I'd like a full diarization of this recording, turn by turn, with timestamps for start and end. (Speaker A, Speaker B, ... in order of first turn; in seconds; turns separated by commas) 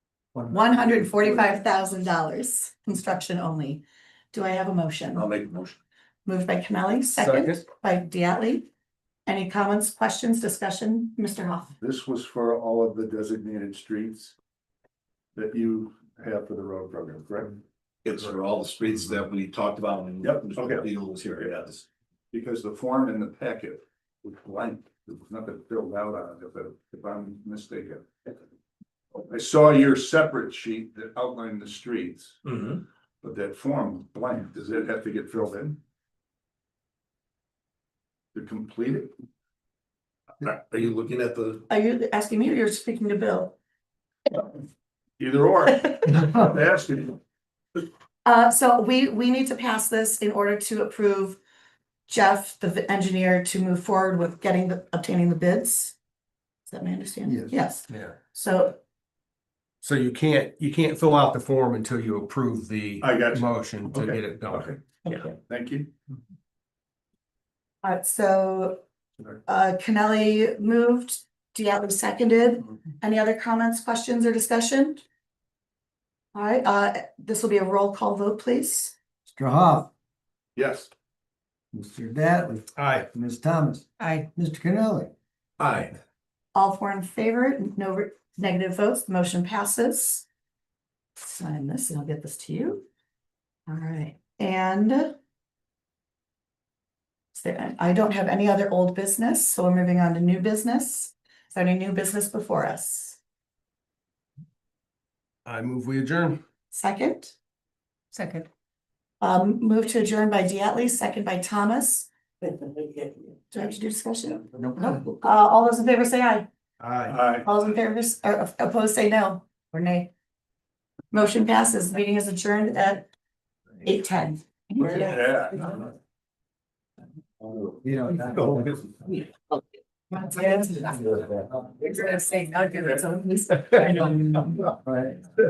Speaker A: 0.5-5.2, Speaker B: 5.1-5.8, Speaker A: 6.2-8.7, Speaker C: 7.2-7.6, Speaker A: 9.2-11.8, Speaker D: 11.8-14.3, Speaker D: 15.3-17.6, Speaker B: 18.0-21.8, Speaker D: 20.2-20.9, Speaker D: 22.3-28.3, Speaker D: 29.3-32.4, Speaker B: 32.5-32.8, Speaker D: 33.2-35.8, Speaker D: 38.3-39.1, Speaker B: 40.4-41.6, Speaker A: 41.7-43.6, Speaker D: 45.2-47.2, Speaker A: 48.2-51.4, Speaker A: 52.1-56.0, Speaker A: 56.7-58.8, Speaker E: 57.2-57.6, Speaker C: 57.9-58.1, Speaker C: 59.8-65.3, Speaker D: 63.0-64.8, Speaker D: 65.4-65.9, Speaker A: 67.8-68.8, Speaker A: 69.5-75.0, Speaker A: 76.3-78.9, Speaker E: 79.3-79.9, Speaker D: 80.5-80.9, Speaker E: 81.7-85.1, Speaker C: 82.8-83.1, Speaker C: 85.6-86.0, Speaker A: 86.5-90.2, Speaker A: 91.2-92.8, Speaker A: 93.7-95.1, Speaker A: 97.3-103.2, Speaker C: 105.4-106.4, Speaker A: 106.7-107.3, Speaker F: 108.1-108.5, Speaker A: 109.2-116.5, Speaker C: 116.8-117.2, Speaker D: 117.1-117.5, Speaker A: 117.4-120.1, Speaker A: 121.1-123.1, Speaker A: 123.8-125.5, Speaker D: 124.8-125.8, Speaker E: 127.8-128.8, Speaker F: 130.2-131.0, Speaker E: 130.2-131.6, Speaker F: 131.8-134.2, Speaker E: 134.6-135.2